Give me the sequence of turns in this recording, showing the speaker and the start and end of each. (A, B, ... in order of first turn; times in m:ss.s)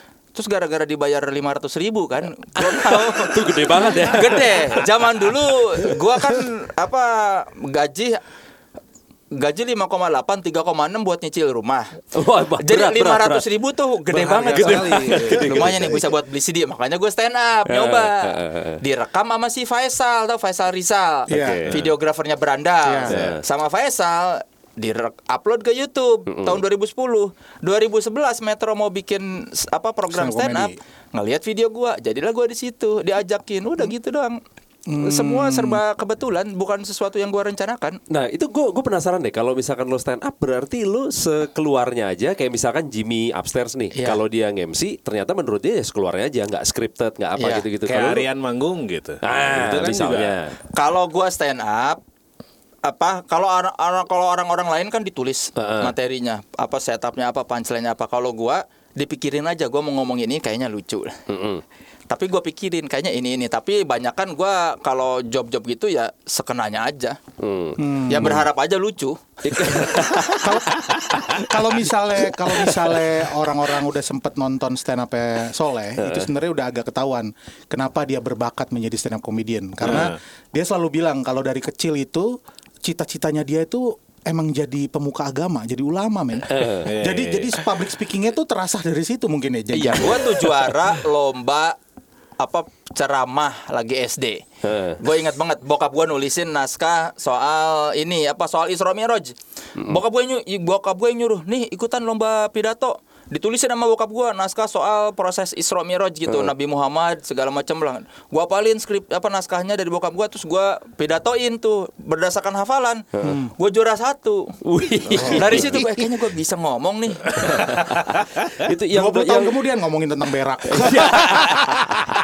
0:00.3-0:08.2 A
0:02.6-0:04.9 B
0:09.3-0:11.9 A
0:12.1-0:13.4 B
0:12.6-0:34.4 A
0:14.1-0:15.6 C
0:14.5-0:15.9 B
0:15.4-0:16.0 D
0:17.7-0:18.8 B
0:21.3-0:21.7 D
0:21.3-0:21.7 B
0:22.8-0:23.2 D
0:23.0-0:23.4 B
0:23.1-0:23.4 C
0:26.3-0:26.6 B
0:30.1-0:30.8 D
0:34.9-0:35.8 D
0:35.0-0:38.0 A
0:38.1-0:48.3 B
0:43.9-0:44.2 A
0:47.4-0:47.6 A
0:47.8-0:50.4 C
0:49.2-0:50.5 B
0:50.7-0:52.0 A
0:52.8-1:01.2 A
0:55.6-0:55.9 B
1:01.3-1:01.6 B
1:02.1-1:07.2 A
1:07.4-1:07.8 B
1:07.8-1:08.5 D
1:08.1-1:10.4 A
1:09.4-1:10.7 B
1:10.3-1:30.6 D
1:16.0-1:16.3 B
1:19.8-1:20.2 C
1:26.5-1:26.9 B
1:26.8-1:27.6 C
1:29.7-1:31.8 A
1:32.4-1:34.4 A
1:34.6-1:35.0 B
1:35.0-1:57.7 A
1:53.2-1:53.5 D
1:54.6-1:55.9 B
1:55.1-1:55.6 C
1:57.3-1:58.5 C
1:58.6-1:59.6 B
1:58.9-2:02.0 D
2:00.7-2:01.8 B
2:01.1-2:01.6 A